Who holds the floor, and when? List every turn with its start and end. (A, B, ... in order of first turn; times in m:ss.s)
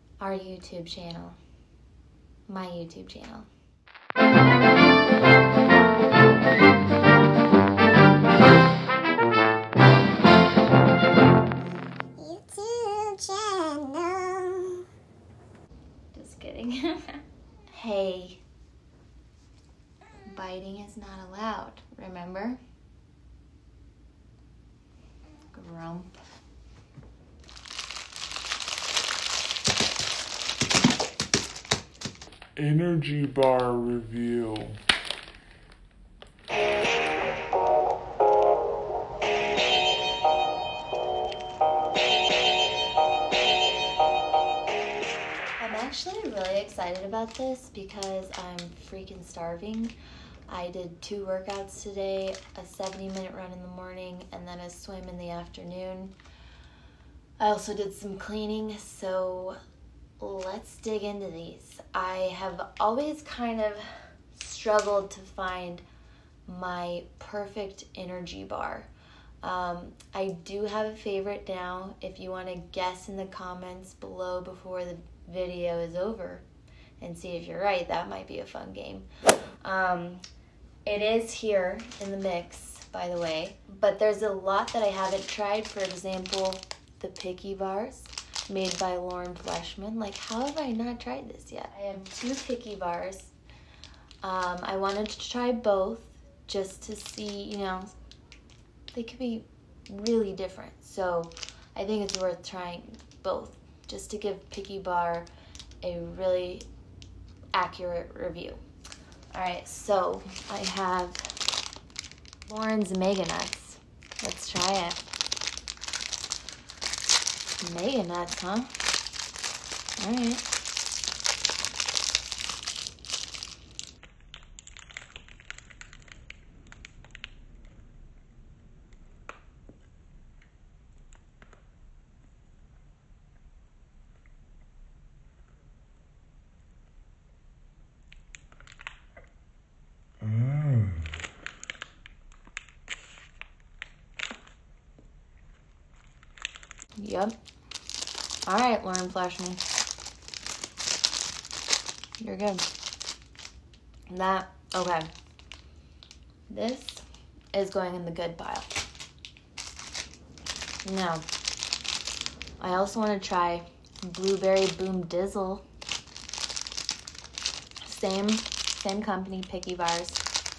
0:00.2-0:01.4 A
0:02.5-0:03.5 A
0:12.2-0:14.8 B
0:16.1-0:18.4 A
0:20.3-0:22.6 A
0:25.5-0:26.1 A
0:32.6-0:34.8 C
0:45.6-0:49.9 A
0:50.5-0:56.2 A
0:57.4-0:59.6 A
1:00.2-1:05.8 A
1:06.4-1:08.9 A
1:09.4-1:16.4 A
1:17.0-1:19.1 A
1:19.6-1:20.2 A
1:20.8-1:33.3 A
1:34.2-1:37.9 A
1:38.9-1:45.3 A
1:45.8-1:46.7 A
1:47.5-1:48.6 A
1:49.3-1:51.2 A
1:52.5-1:55.1 A
1:57.6-1:58.7 A
2:00.0-2:00.4 A
2:20.4-2:20.9 B
2:27.0-2:27.4 A
2:28.4-2:29.6 A
2:32.2-2:32.6 A
2:34.1-2:35.1 A
2:36.5-2:38.8 A
2:40.8-2:41.2 A
2:42.6-2:45.6 A
2:47.8-2:50.2 A